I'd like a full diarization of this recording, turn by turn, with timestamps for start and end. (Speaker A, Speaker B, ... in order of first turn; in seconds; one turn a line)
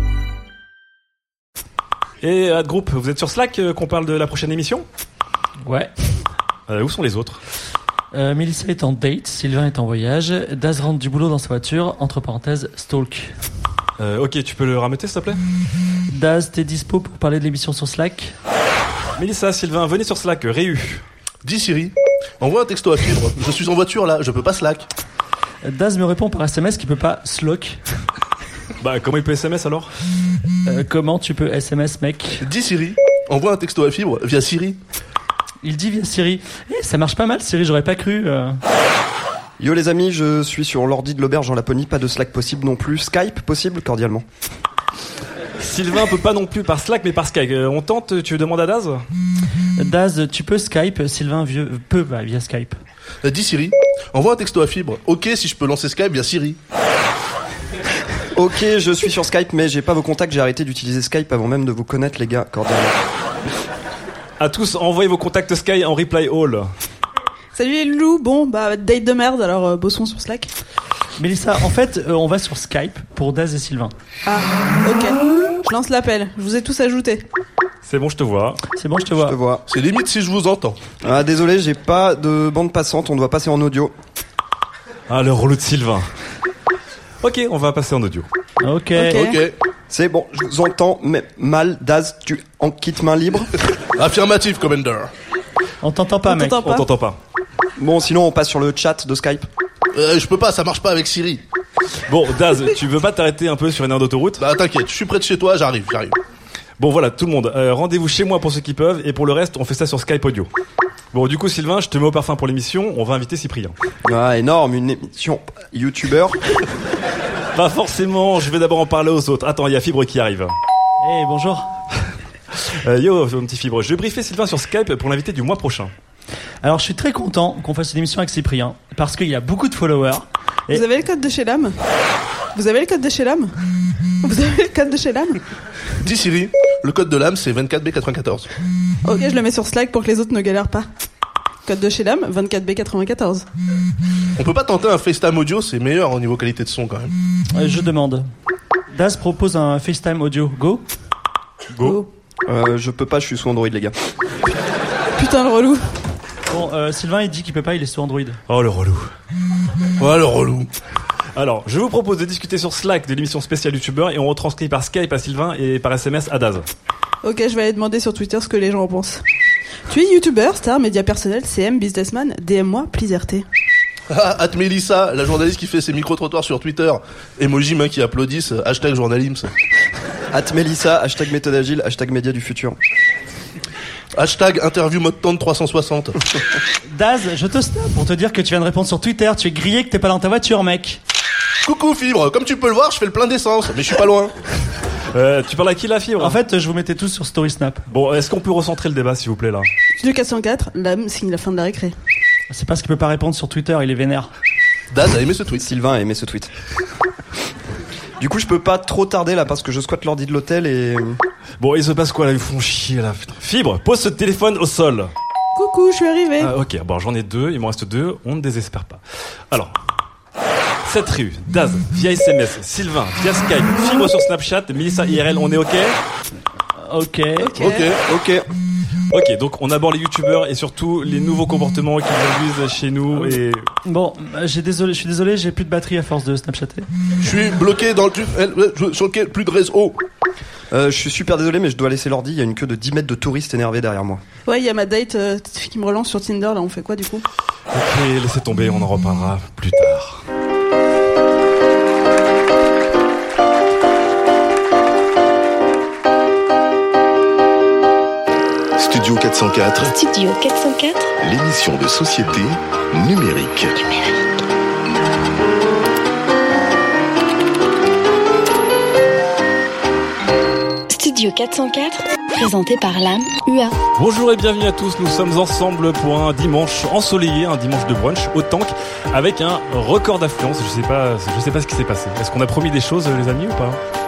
Speaker A: 2.2-4.8
Speaker B: 5.6-5.9
Speaker A: 6.7-7.4
Speaker B: 8.1-13.3
Speaker A: 14.0-15.4
Speaker B: 16.1-18.3
Speaker A: 19.2-21.0
Speaker C: 21.4-24.9
Speaker B: 25.6-27.8
Speaker A: 28.8-29.9
Speaker B: 30.6-32.5
Speaker C: 32.4-34.8
Speaker B: 35.6-38.6
Speaker D: 39.6-44.2
Speaker A: 45.6-49.0
Speaker B: 49.8-52.8
Speaker C: 53.2-56.6
Speaker D: 58.3-63.0
Speaker A: 64.4-66.7
Speaker E: 67.5-70.5
Speaker B: 71.2-73.9
Speaker E: 74.2-77.2
Speaker A: 77.8-78.6
Speaker B: 78.8-79.4
Speaker D: 79.2-79.6
Speaker C: 79.7-80.8
Speaker D: 81.0-83.9
Speaker A: 85.1-86.1
Speaker A: 87.2-88.3
Speaker B: 88.6-89.2
Speaker C: 89.0-89.5
Speaker E: 89.0-89.4
Speaker D: 89.9-93.5
Speaker C: 93.9-95.1
Speaker B: 95.8-96.6
Speaker E: 96.2-96.8
Speaker A: 96.6-97.2
Speaker D: 97.8-99.5
Speaker C: 99.9-101.4
Speaker A: 102.1-104.4
Speaker C: 104.4-106.2
Speaker A: 106.8-110.5
Speaker A: 111.1-113.7
Speaker D: 114.0-116.4
Speaker A: 117.5-120.5
Speaker B: 121.0-121.7
Speaker A: 122.5-125.9
Speaker B: 126.6-130.8
Speaker E: 130.7-131.7
Speaker E: 132.5-133.5
Speaker E: 134.2-135.4
Speaker C: 136.0-138.5
Speaker E: 139.0-140.9
Speaker E: 141.7-143.4
Speaker C: 144.4-147.1
Speaker B: 147.5-148.2
Speaker B: 148.9-150.8
Speaker A: 151.7-152.0
Speaker E: 151.8-152.1
Speaker D: 152.4-153.9
Speaker E: 155.2-155.8
Speaker B: 156.5-158.4
Speaker A: 158.5-159.1
Speaker C: 160.0-160.7
Speaker A: 161.3-166.7
Speaker E: 167.2-169.2
Speaker E: 169.9-173.4
Speaker C: 174.1-179.5
Speaker D: 180.3-182.8
Speaker C: 184.2-186.2
Speaker B: 186.9-191.0
Speaker C: 191.6-194.3
Speaker A: 195.1-196.4
Speaker B: 196.2-197.8
Speaker A: 197.9-199.7
Speaker E: 200.0-201.9
Speaker B: 202.5-204.3
Speaker C: 204.9-205.6
Speaker D: 205.6-206.5
Speaker D: 208.2-211.2
Speaker A: 211.6-215.1
Speaker E: 215.6-216.5
Speaker A: 216.4-219.7
Speaker A: 220.8-225.9
Speaker B: 226.8-227.6
Speaker E: 227.4-227.9
Speaker C: 227.6-228.0
Speaker D: 228.1-228.5
Speaker A: 229.1-233.7
Speaker B: 233.2-236.9
Speaker C: 237.2-240.0
Speaker D: 240.7-244.2
Speaker E: 244.4-247.2
Speaker A: 247.7-250.2
Speaker F: 258.8-260.0
Speaker G: 259.8-261.1
Speaker F: 261.2-263.8
Speaker G: 263.8-264.2
Speaker G: 270.9-273.7
Speaker A: 274.0-283.8